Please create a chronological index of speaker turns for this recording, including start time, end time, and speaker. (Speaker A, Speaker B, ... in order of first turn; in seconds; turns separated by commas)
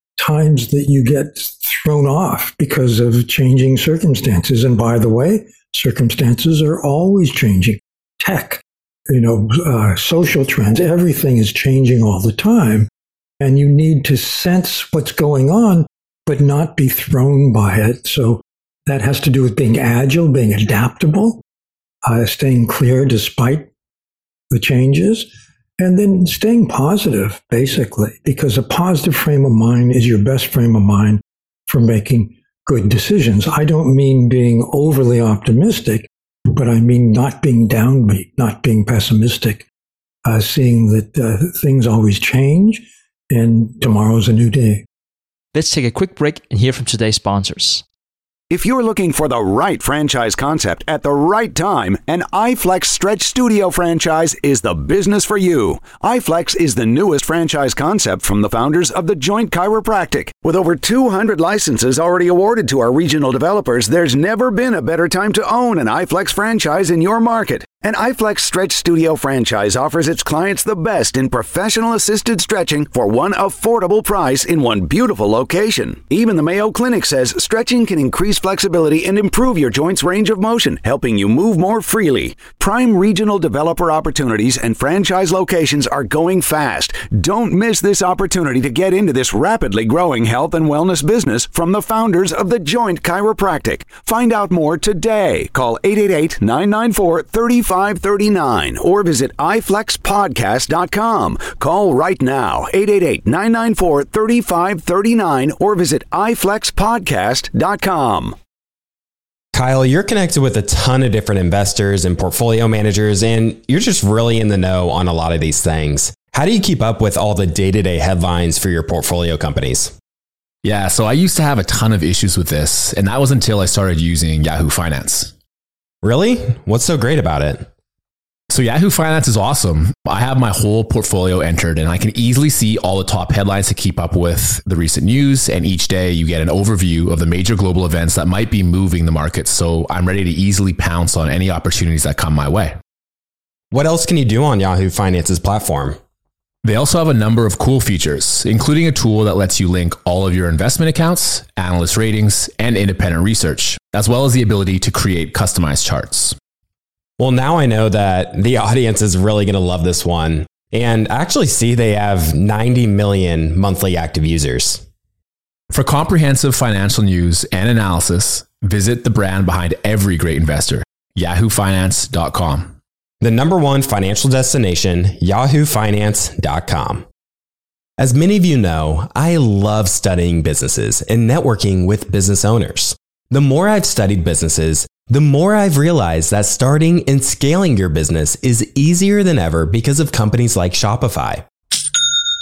Speaker A: 0.2-12.9, Speaker A: 13.4-21.4, Speaker A: 22.0-23.7, Speaker A: 24.5-39.7, Speaker A: 40.2-44.8, Speaker B: 45.5-47.8, Speaker C: 48.5-108.3, Speaker D: 109.5-119.9, Speaker E: 120.6-125.3, Speaker D: 126.0-127.7, Speaker E: 128.5-142.7, Speaker D: 143.7-146.0, Speaker E: 146.6-156.4, Speaker D: 157.2-164.8, Speaker E: 165.7-172.7, Speaker D: 173.2-177.0, Speaker D: 178.0-191.4